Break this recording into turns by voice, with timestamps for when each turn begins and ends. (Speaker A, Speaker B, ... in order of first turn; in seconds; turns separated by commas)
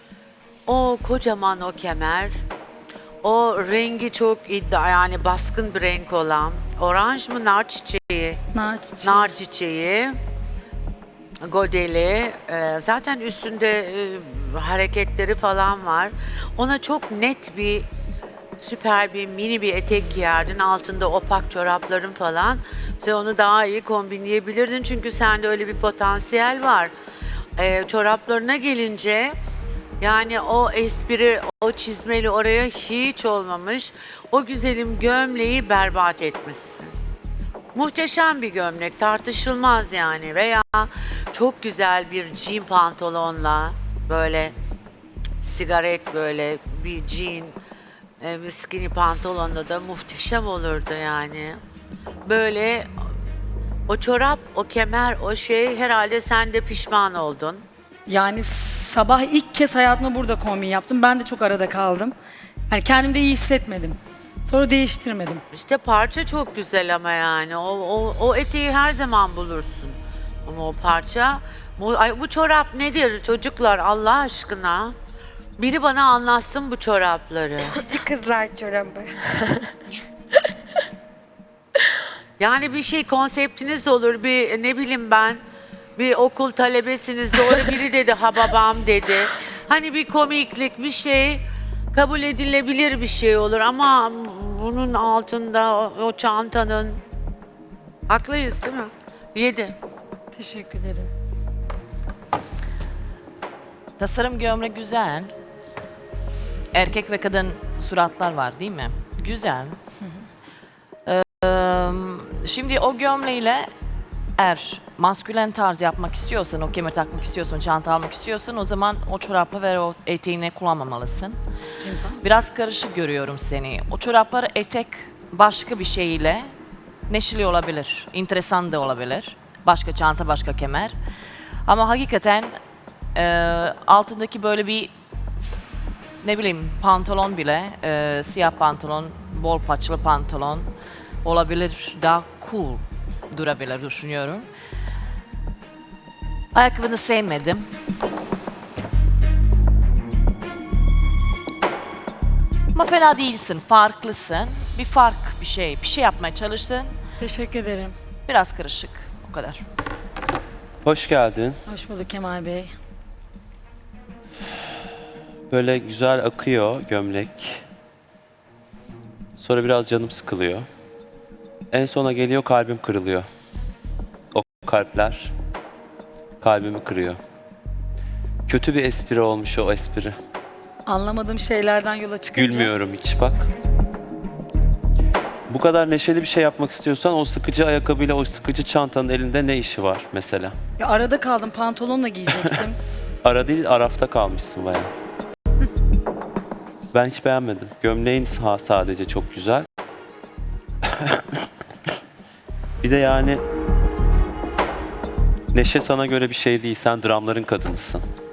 Speaker A: 0.7-2.3, Speaker A: 3.2-8.4, Speaker B: 8.5-9.3, Speaker A: 9.0-10.2, Speaker A: 11.4-17.9, Speaker A: 18.6-26.9, Speaker A: 27.6-29.3, Speaker A: 30.0-36.9, Speaker A: 37.8-44.5, Speaker A: 45.4-47.5, Speaker A: 48.2-51.6, Speaker A: 52.3-52.9, Speaker A: 53.9-57.6, Speaker B: 58.1-62.2, Speaker B: 62.7-65.4, Speaker A: 65.5-75.0, Speaker A: 75.6-78.1, Speaker C: 77.7-79.7, Speaker A: 82.4-85.4, Speaker A: 86.0-97.0, Speaker A: 98.1-99.8, Speaker B: 100.3-101.1, Speaker D: 104.0-105.3, Speaker D: 106.7-109.8, Speaker D: 111.1-113.7, Speaker D: 114.4-121.4, Speaker B: 121.8-122.2, Speaker D: 122.2-126.5, Speaker D: 127.1-130.9, Speaker D: 131.7-132.6, Speaker D: 133.2-134.9, Speaker D: 136.2-140.7, Speaker D: 141.2-144.5, Speaker D: 146.5-147.7, Speaker D: 152.7-156.9, Speaker B: 157.2-157.9, Speaker D: 158.3-159.6, Speaker E: 160.8-161.6, Speaker B: 161.7-162.7, Speaker E: 165.5-167.6, Speaker E: 169.4-170.7, Speaker E: 171.7-173.2, Speaker E: 174.3-175.3, Speaker E: 176.4-177.2, Speaker E: 178.5-180.2, Speaker B: 180.9-182.7, Speaker E: 182.3-183.5, Speaker E: 185.5-190.5, Speaker B: 190.8-192.8, Speaker E: 193.2-194.9, Speaker E: 196.9-199.7, Speaker E: 200.8-201.4, Speaker E: 202.8-203.4, Speaker E: 205.5-208.0